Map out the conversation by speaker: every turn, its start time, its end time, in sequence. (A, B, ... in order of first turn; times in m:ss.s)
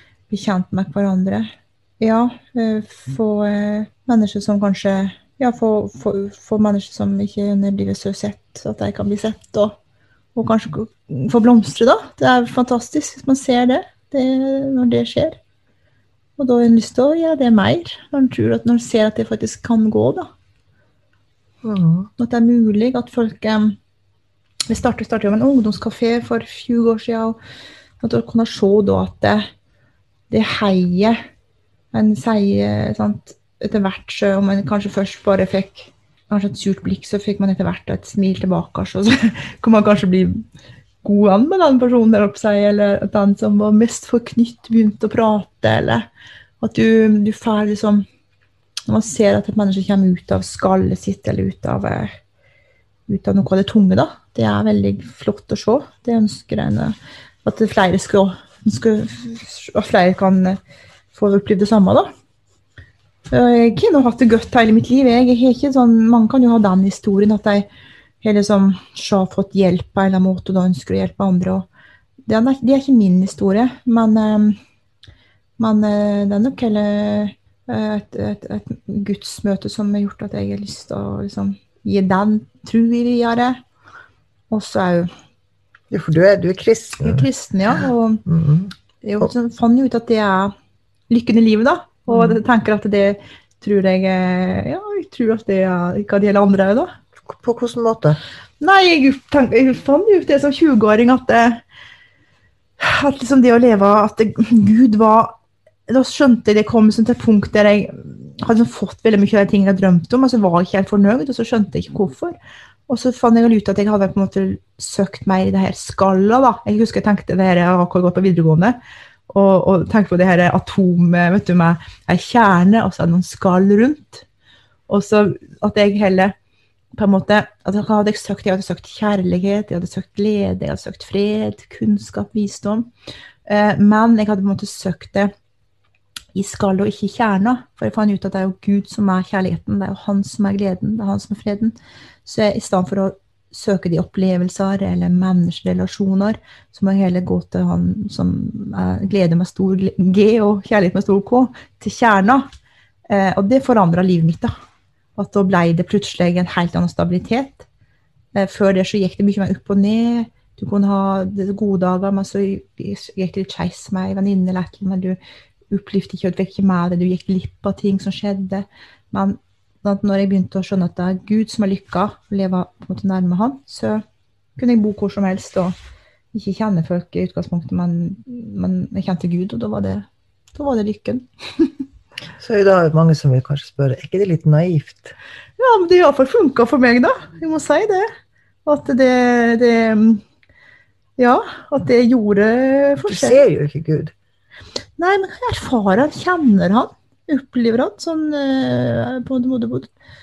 0:00.3-0:09.8 A
0:10.3-0:15.4 A
0:16.4-0:20.3 A
0:21.6-0:22.1 B
0:22.2-0:23.8 A
0:24.7-0:27.4 A
0:28.0-0:29.5 A
0:30.3-0:31.2 A
0:31.9-0:40.4 A
0:41.0-0:46.1 A
0:46.6-0:48.0 A
0:48.9-0:52.2 A
0:53.1-1:00.6 A
1:01.1-1:02.1 A
1:03.3-1:07.7 A
1:08.2-1:11.6 A
1:12.3-1:14.6 A
1:15.6-1:23.6 A
1:24.5-1:25.1 A
1:25.9-1:27.3 B
1:27.0-1:28.2 A
1:28.2-1:29.3 B
1:29.0-1:30.5 A
1:31.1-1:36.9 A
1:32.1-1:32.4 B
1:37.2-1:38.2 B
1:38.6-1:41.6 A
1:42.8-1:52.4 A
1:52.9-1:58.8 A
1:59.3-2:04.2 A
2:04.9-2:06.3 A
2:07.0-2:12.9 A
2:13.5-2:15.3 A
2:16.3-2:32.4 A
2:33.1-2:34.5 A
2:35.2-2:37.6 A
2:38.3-2:45.2 A
2:45.7-2:54.0 A
2:54.6-2:55.7 A
2:56.3-3:01.7 A
3:02.4-3:05.1 B
3:05.6-3:08.1 A
3:08.6-3:10.2 A
3:11.2-3:13.4 A
3:13.1-3:14.1 B
3:15.0-3:19.9 A